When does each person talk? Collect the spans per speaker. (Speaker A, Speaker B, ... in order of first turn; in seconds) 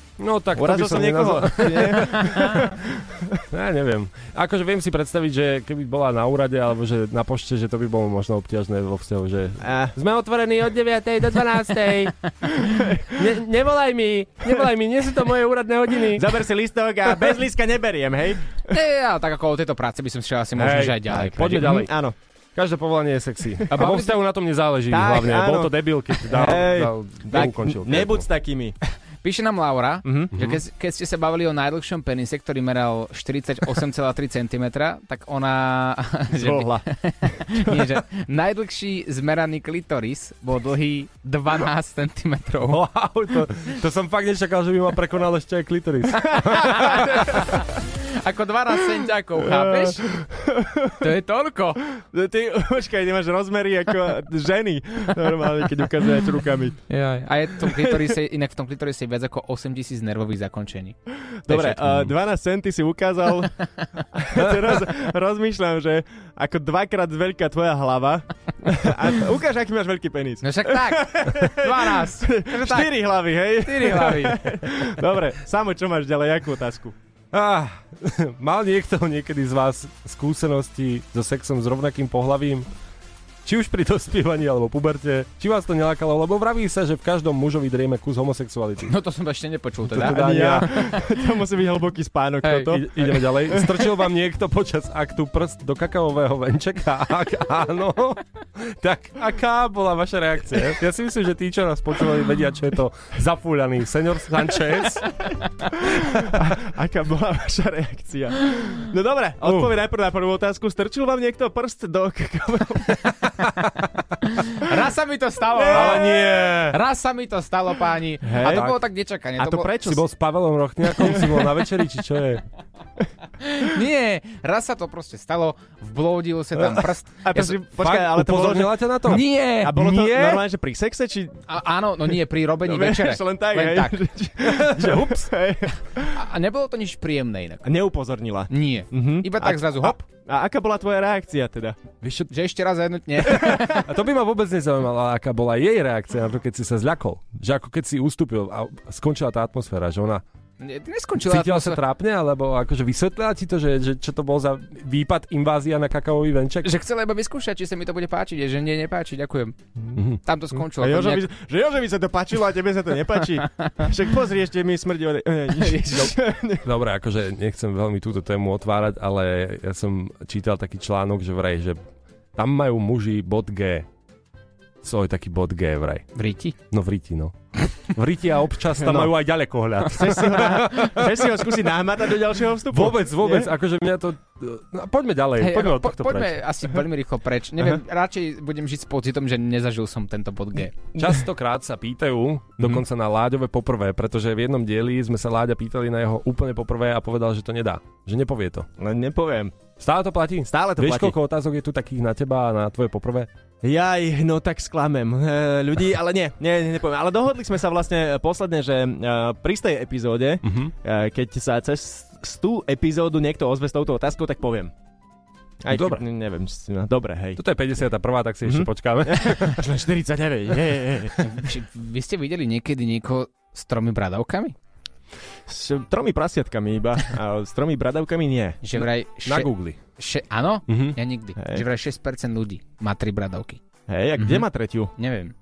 Speaker A: 0.2-2.7, 3.5-16.3, 20.6-21.9, 22.5-28.2, 30.3-30.6, 42.7-47.0, 77.3-82.7, 83.4-88.9, 89.9-90.7, 92.6-105.2, 109.4-109.7, 115.7-116.8, 118.4-118.7, 119.8-122.4, 127.8-129.3, 134.4-135.3, 142.0-142.3, 143.4-150.2, 151.2-156.7, 166.6-171.8, 172.3-173.9, 174.8-176.1, 176.7-181.4, 182.7-186.3, 190.9-198.7, 199.8-203.3, 210.4-210.7, 215.7-216.0, 217.4-219.5, 229.2-229.8, 230.7-231.0
Speaker B: 0.5-3.4, 9.6-9.9, 16.1-18.7, 21.4-22.1, 24.9-28.8, 30.0-30.3, 36.3-37.9, 46.6-47.5, 49.4-51.0, 52.0-56.9, 57.6-58.1, 61.5-77.0, 90.0-93.9, 105.9-113.1, 115.6-116.5, 118.2-118.8, 119.4-120.0, 127.2-128.8, 129.6-131.4, 132.6-136.2, 137.6-141.9, 160.8-166.7, 178.8-179.1, 179.9-183.5, 198.8-199.5, 200.5-201.1, 203.6-214.7, 215.6-217.4, 218.4-221.3, 225.5-228.8, 231.4-231.6, 233.9-234.9
Speaker C: 18.7-21.7, 23.7-24.1, 29.2-42.8, 46.3-50.1, 51.0-51.8, 56.9-61.0, 61.5-61.8, 70.4-72.9, 73.6-74.4, 88.8-91.0, 114.2-119.7, 123.4-127.5, 129.1-130.4, 131.5-134.0, 136.1-137.7, 138.5-140.0, 142.3-143.8, 150.6-151.8, 156.6-159.6, 160.2-161.3, 165.6-166.1, 176.1-176.6, 185.4-190.8, 221.2-224.5, 228.6-233.6, 234.2-234.4, 234.9-235.3